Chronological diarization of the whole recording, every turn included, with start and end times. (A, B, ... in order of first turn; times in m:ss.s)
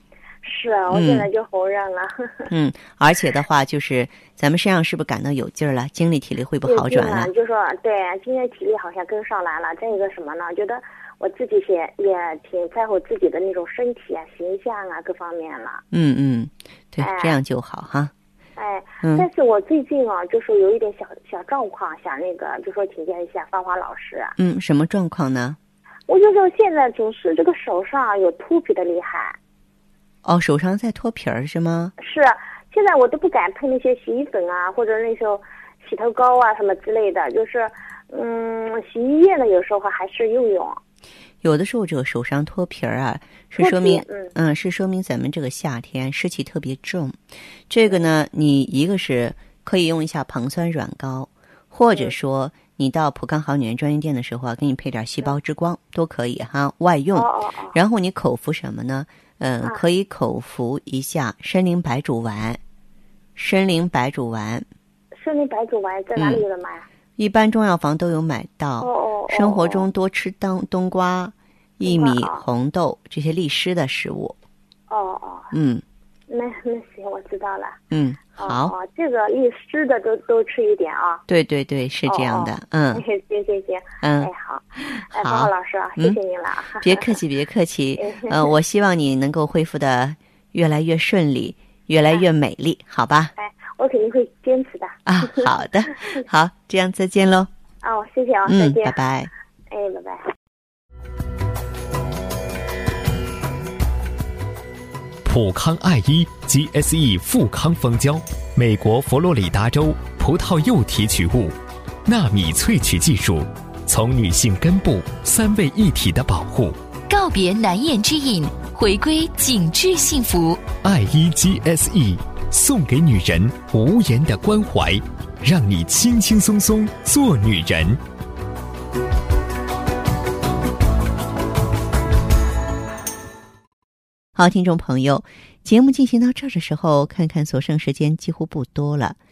0:00.4-0:02.5 A
0:00.9-0:01.3 B
0:02.5-0:07.3 B
0:06.6-0:15.8 A
0:15.9-0:18.1 B
0:17.0-0:17.4 A
0:18.6-0:24.4 A
0:24.4-0:25.6 B
0:26.1-0:29.4 A
0:30.2-0:31.9 B
0:32.0-0:40.8 A
0:41.4-0:47.2 B
0:43.6-0:44.3 A
0:47.7-1:02.6 B
0:57.1-0:57.8 A
1:03.4-1:04.6 B
1:05.2-1:06.8 A
1:06.2-1:06.4 B
1:07.2-1:14.4 B
1:08.8-1:09.8 A
1:11.8-1:12.4 A
1:14.9-1:15.5 A
1:15.5-1:15.8 B
1:16.3-1:17.8 A
1:17.9-1:18.7 B
1:18.4-1:21.2 A
1:21.3-1:23.0 B
1:22.1-1:27.2 A
1:24.0-1:26.2 B
1:26.8-1:33.3 B
1:28.0-1:28.5 A
1:33.4-1:35.5 A
1:35.0-1:37.5 B
1:37.8-1:39.0 A
1:38.5-1:39.3 B
1:39.7-1:40.2 A
1:45.2-1:56.8 C
1:57.1-2:00.7 D
2:00.7-2:08.0 C
2:14.3-2:19.2 B